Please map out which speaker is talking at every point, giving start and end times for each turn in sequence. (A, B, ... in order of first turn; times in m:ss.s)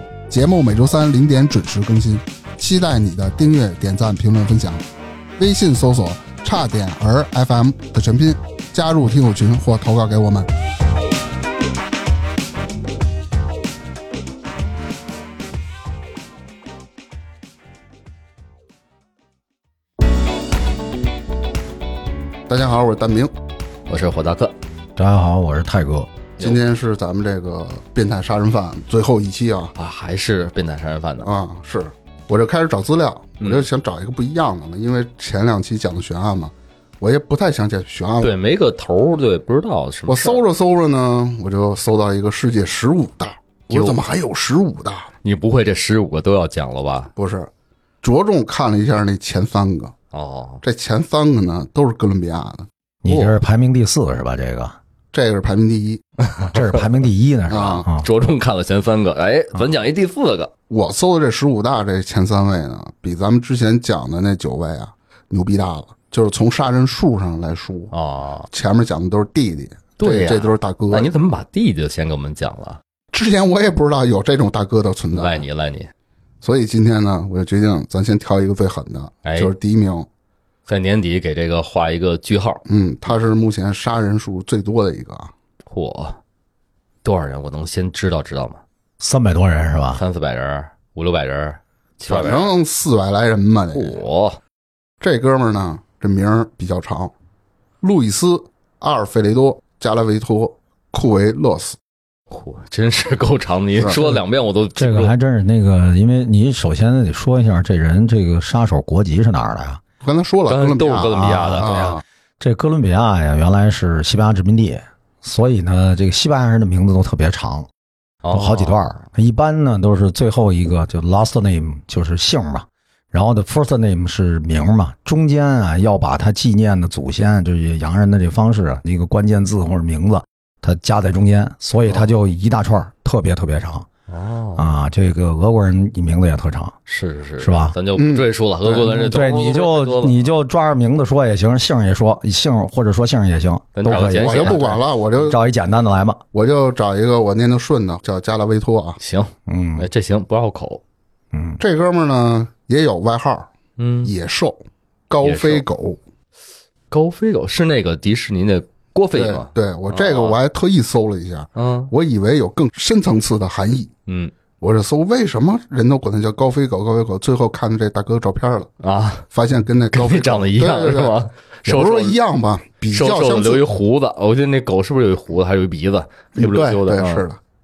0:00.3-0:04.8 A
0:05.4-0:10.5 A
0:22.5-0:23.3 A
0:23.9-0:24.5 B
0:25.0-0:26.1 C
0:26.4-0:29.8 A
0:29.8-0:31.3 B
0:31.2-0:38.3 A
0:33.4-0:33.6 B
0:38.2-0:40.4 B
0:40.1-0:45.1 A
0:43.7-0:44.1 B
0:45.2-0:47.1 B
0:47.2-0:47.5 A
0:48.0-0:50.0 A
0:50.1-0:50.6 B
0:50.6-0:52.7 A
0:53.0-0:54.8 C
0:53.1-0:53.4 B
0:55.1-0:56.0 A
0:56.4-0:56.8 B
0:56.5-0:58.1 C
0:57.5-0:57.9 A
0:58.0-1:00.5 B
1:00.7-1:07.9 A
1:07.9-1:08.5 B
1:08.5-1:11.1 A
1:10.0-1:12.8 B
1:13.1-1:15.5 A
1:15.1-1:15.9 B
1:16.4-1:20.1 A
1:19.2-1:19.5 B
1:20.7-1:22.6 B
1:22.7-1:25.3 A
1:25.7-1:26.2 B
1:27.0-1:28.6 B
1:29.0-1:30.0 C
1:30.0-1:32.5 B
1:32.1-1:34.0 A
1:33.7-1:34.4 B
1:35.0-1:37.1 A
1:37.8-1:41.8 A
1:42.3-1:45.1 B
1:44.8-1:49.8 C
1:50.0-1:52.0 A
1:50.5-1:51.7 B
1:51.1-1:57.7 C
1:58.2-1:58.9 B
1:58.3-2:13.9 C
2:14.1-2:14.7 B
2:14.6-2:16.8 C
2:16.9-2:20.2 B
2:17.4-2:17.8 C
2:18.0-2:19.4 A
2:19.1-2:24.6 C
2:23.8-2:24.8 B
2:23.9-2:25.4 A
2:25.2-2:26.2 C
2:26.3-2:29.0 A
2:29.0-2:30.8 B
2:29.5-2:29.9 C
2:31.3-2:31.6 C
2:31.6-2:33.5 A
2:33.8-2:34.1 B
2:34.0-2:36.0 A
2:35.2-2:35.6 B
2:36.9-2:40.4 B
2:39.1-2:43.9 A
2:41.6-2:41.9 B
2:44.1-2:44.3 B
2:44.6-2:48.7 A
2:48.8-2:49.2 B
2:49.3-2:53.7 A
2:49.9-2:52.2 B
2:52.9-2:57.3 B
2:56.4-2:57.4 A